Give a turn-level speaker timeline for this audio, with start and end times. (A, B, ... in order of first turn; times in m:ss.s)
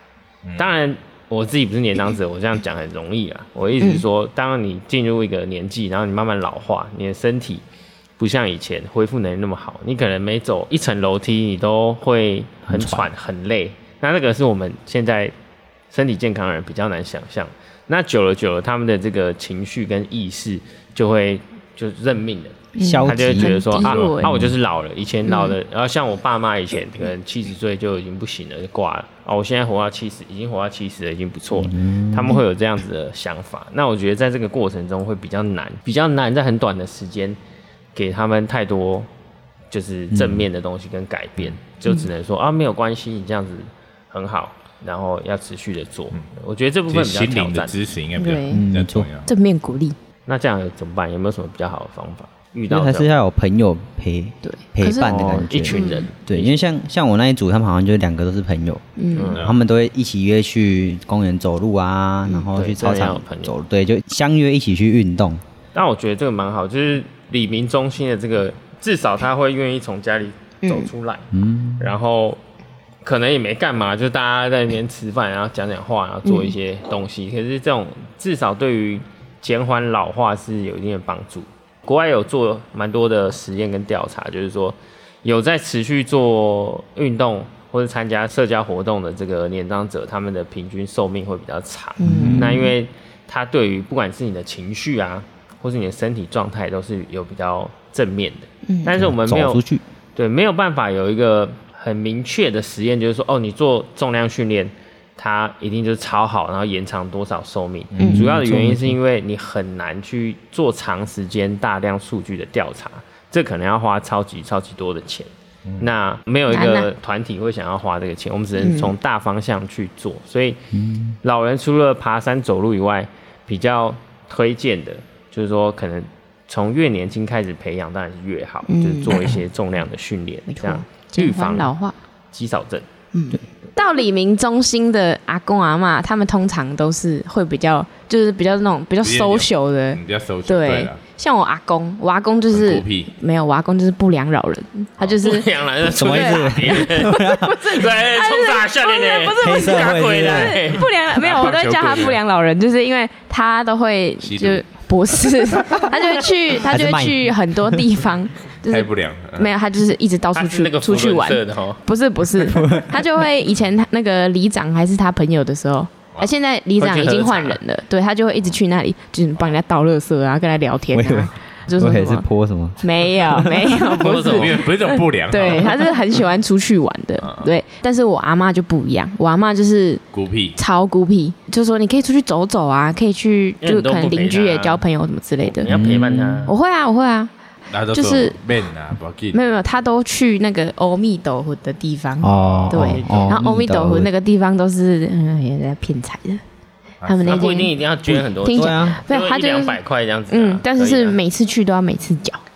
0:00.6-0:07.6 A
0:08.2-0:15.3 A
0:12.7-0:13.1 B
0:15.9-0:37.4 A
0:22.8-0:24.3 C
0:22.8-0:23.6 B
0:23.8-0:24.1 D
0:24.2-0:24.5 B
0:25.3-0:25.6 C
0:31.5-0:32.4 B
0:38.0-0:39.1 A
0:39.7-0:47.8 A
0:40.1-0:40.5 B
0:46.9-0:49.3 D
0:48.2-0:48.6 C
0:48.5-0:49.1 B
0:49.3-0:50.0 C
0:50.3-0:53.1 A
0:52.7-0:58.8 B
0:54.4-0:56.1 C
0:55.0-0:56.6 A
0:59.0-0:59.4 C
0:59.1-0:59.5 A
0:59.4-1:05.4 B
1:02.5-1:03.5 A
1:05.7-1:11.3 A
1:10.6-1:10.9 C
1:11.3-1:11.9 B
1:11.8-1:12.4 A
1:13.0-1:39.6 A
1:16.2-1:16.5 C
1:32.0-1:32.7 C
1:32.0-1:32.7 B
1:38.7-1:38.9 C
1:38.9-1:39.8 B
1:40.2-2:00.6 A
1:48.0-1:48.3 C
1:48.0-1:49.0 B
1:56.5-1:56.9 C
1:58.6-1:58.9 C
2:00.7-2:01.2 B
2:01.2-2:11.7 A
2:08.7-2:09.3 C
2:10.5-2:12.0 C
2:12.3-2:12.9 A
2:13.1-2:25.5 C
2:19.0-2:21.0 D
2:22.5-2:23.1 D
2:25.0-2:30.9 A
2:25.8-2:27.7 B
2:26.0-2:52.3 C
2:29.4-2:30.6 B
2:31.1-2:32.2 D
2:34.2-2:35.9 D
2:36.6-2:37.8 B
2:38.7-2:39.5 D
2:40.4-2:41.8 A
2:42.5-2:43.0 B
2:46.8-2:47.6 A
2:50.9-2:53.8 B
2:52.8-3:00.0 C
2:53.9-2:54.6 A
2:54.3-2:56.0 D
2:57.2-2:57.5 D
3:00.1-3:00.6 D
3:00.6-3:05.8 C
3:03.6-3:04.8 A
3:05.5-3:06.6 A
3:05.7-3:06.5 B
3:06.5-3:07.3 C
3:07.7-3:09.4 D
3:07.9-3:08.4 C
3:09.3-3:16.4 C
3:12.2-3:14.1 B
3:12.3-3:13.2 D
3:12.9-3:13.4 A
3:17.0-3:17.5 D
3:17.0-3:17.7 C
3:17.3-3:21.2 A
3:18.1-3:19.0 B
3:18.4-3:19.8 C
3:20.3-3:22.4 C